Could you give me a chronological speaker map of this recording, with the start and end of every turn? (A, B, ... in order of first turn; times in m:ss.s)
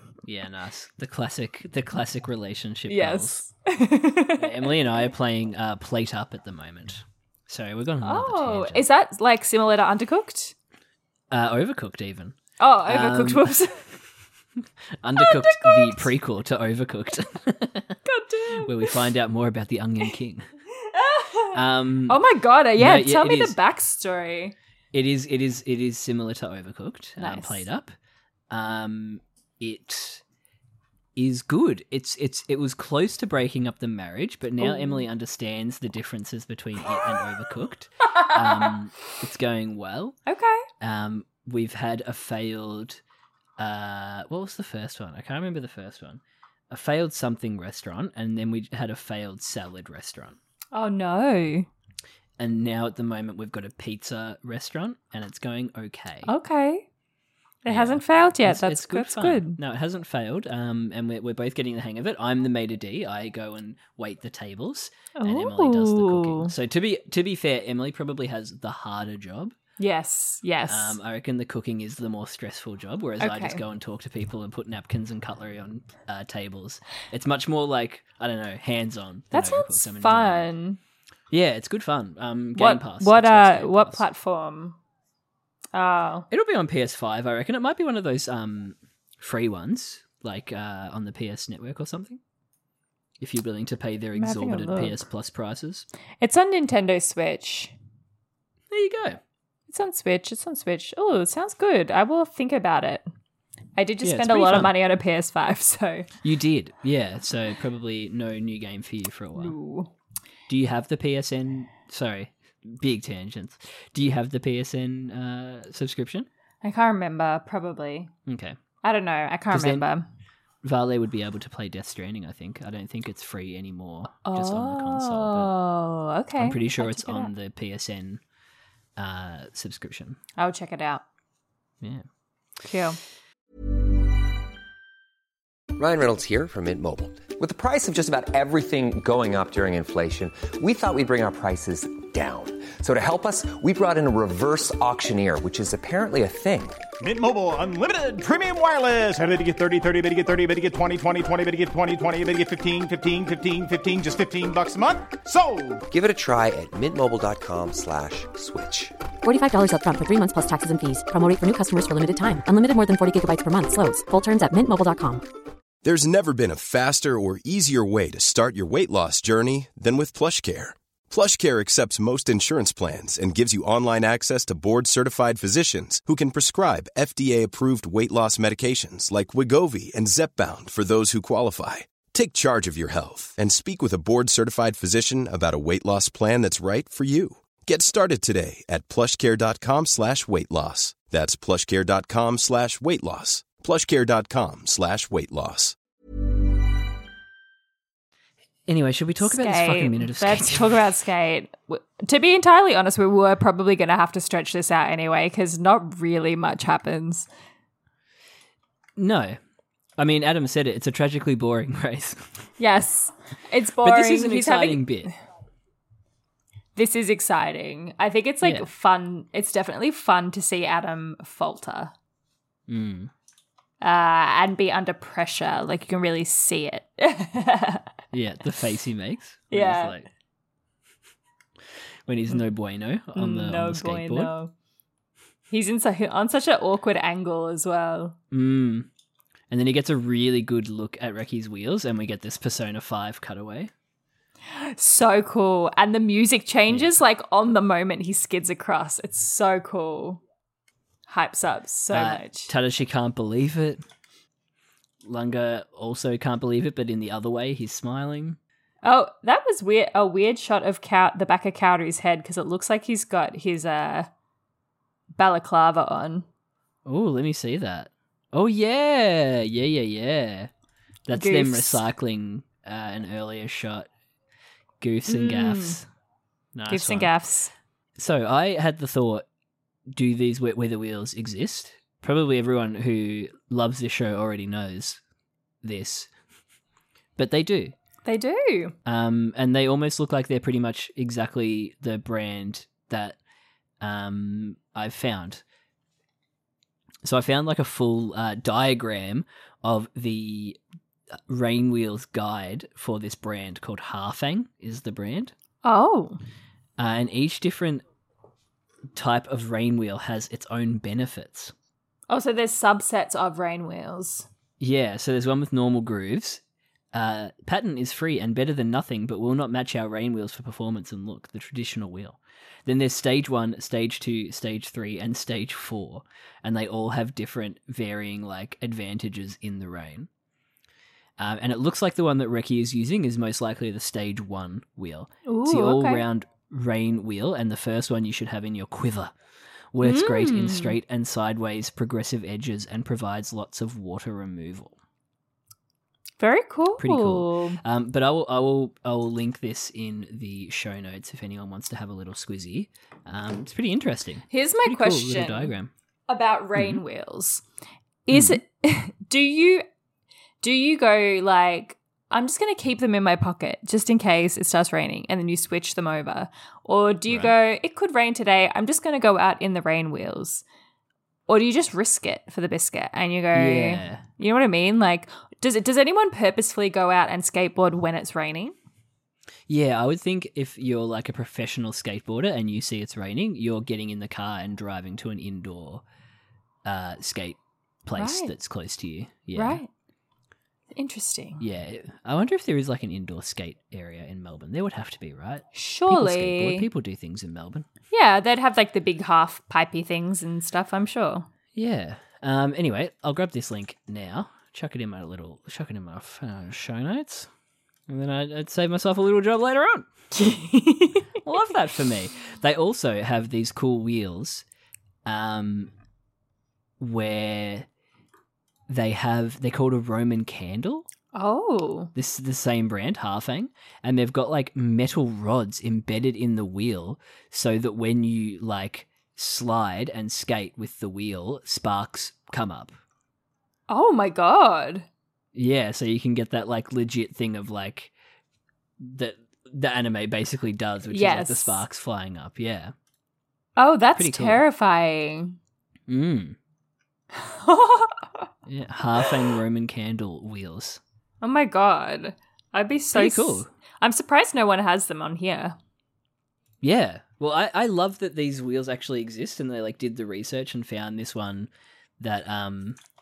0:00.2-0:03.4 A
0:02.9-0:04.7 B
0:04.4-0:08.8 A
0:08.0-0:10.5 B
0:11.3-0:12.4 A
0:12.6-0:13.8 B
0:12.9-0:13.6 A
0:15.0-0:18.0 A
0:15.2-0:16.1 B
0:18.1-0:19.0 B
0:18.6-0:20.5 A
0:20.8-0:24.6 B
0:21.5-0:22.2 A
0:22.8-0:23.6 A
0:24.9-0:27.9 A
0:27.2-0:27.6 B
0:28.5-0:30.2 A
0:31.2-0:40.2 A
0:34.6-0:35.1 B
0:40.3-0:40.6 B
0:40.8-0:43.0 A
0:43.6-0:50.4 A
0:50.7-0:51.7 B
0:52.4-0:56.3 A
0:56.2-0:56.8 B
0:57.6-0:59.6 B
0:57.7-1:09.6 A
1:05.2-1:06.5 B
1:09.8-1:11.0 B
1:10.7-1:20.5 A
1:13.2-1:13.6 B
1:19.3-1:20.8 B
1:21.3-1:24.0 A
1:22.6-1:24.8 B
1:25.7-1:26.3 B
1:26.3-1:32.2 A
1:33.2-1:35.9 A
1:34.2-1:35.0 B
1:36.2-1:37.7 B
1:38.7-1:39.2 A
1:39.7-1:43.0 B
1:43.8-1:46.1 B
1:44.0-1:44.8 A
1:46.2-1:49.6 A
1:49.4-1:49.9 B
1:50.5-1:56.3 A
1:56.6-1:58.1 B
1:58.3-1:58.6 A
1:58.8-2:00.1 B
1:59.5-1:59.9 A
2:00.6-2:05.6 A
2:04.2-2:07.3 B
2:06.4-2:08.2 A
2:09.0-2:10.2 A
2:10.4-2:11.0 B
2:12.6-2:13.0 B
2:15.8-2:26.8 C
2:27.0-2:35.8 D
2:35.9-2:39.0 C
2:39.2-2:45.2 E
2:45.8-3:15.8 F
3:18.7-3:20.8 A
3:19.2-3:27.3 B
3:29.0-3:29.4 A
3:30.0-3:32.4 A
3:32.6-3:35.1 B
3:33.8-3:35.1 A
3:36.8-3:41.9 B
3:42.7-3:43.1 A
3:43.8-3:47.9 B
3:48.1-3:50.1 A
3:49.5-3:50.0 B
3:52.1-3:54.3 A
3:53.2-3:54.5 B
3:55.5-3:58.2 B
3:58.3-3:58.9 A
3:59.5-4:03.7 A
4:04.5-4:10.2 B
4:11.1-4:12.5 B
4:11.9-4:13.8 A
4:15.0-4:18.4 A
4:18.8-4:24.1 B
4:25.2-4:26.3 B
4:26.9-4:30.5 A
4:31.1-4:33.9 A
4:31.1-4:31.8 B
4:34.8-4:35.9 A
4:35.1-4:35.8 B
4:36.6-4:37.1 A
4:36.7-4:37.5 B
4:38.0-4:39.2 A
4:39.9-4:45.0 A
4:45.6-4:46.1 A
4:47.2-4:47.7 A
4:48.0-4:48.8 B
4:48.9-4:53.2 A
4:53.8-4:55.4 A
4:57.0-5:00.6 A
5:01.3-5:05.3 A
5:05.6-5:06.2 B
5:06.8-5:07.8 A
5:09.0-5:11.5 A
5:12.1-5:14.3 B
5:14.6-5:16.4 A
5:16.9-5:30.1 A
5:31.2-5:39.1 A
5:35.3-5:36.0 B
5:39.7-5:44.8 A
5:39.8-5:40.8 B
5:46.2-5:47.6 B
5:46.8-5:55.7 A
5:54.3-5:55.5 B
5:56.1-5:57.4 B
5:58.1-5:59.6 B
5:58.1-5:58.4 A
6:00.4-6:10.4 B
6:07.1-6:07.4 A
6:11.3-6:18.6 B
6:13.3-6:14.0 A
6:19.5-6:25.8 A
6:26.6-6:29.6 A
6:28.0-6:28.3 B
6:29.3-6:29.7 B
6:30.7-6:31.4 B
6:31.4-6:37.7 A
6:35.5-6:36.7 B
6:37.9-6:41.3 B
6:41.6-6:47.3 A
6:47.9-6:49.9 A
6:50.2-6:51.1 B
6:51.2-6:54.4 A
6:55.0-6:55.7 A
6:56.8-6:57.7 A
6:58.7-7:00.9 A
7:01.1-7:01.9 B
7:02.0-7:12.8 A
7:13.7-7:14.9 B
7:15.4-7:17.9 A
7:18.8-7:22.7 A
7:20.9-7:21.6 B
7:23.6-7:25.4 B
7:24.0-7:24.4 A
7:25.9-7:26.4 A
7:27.2-7:28.3 B
7:28.5-7:30.8 A
7:31.2-7:35.6 B
7:32.9-7:33.5 A
7:36.6-7:41.5 A
7:42.0-7:42.8 A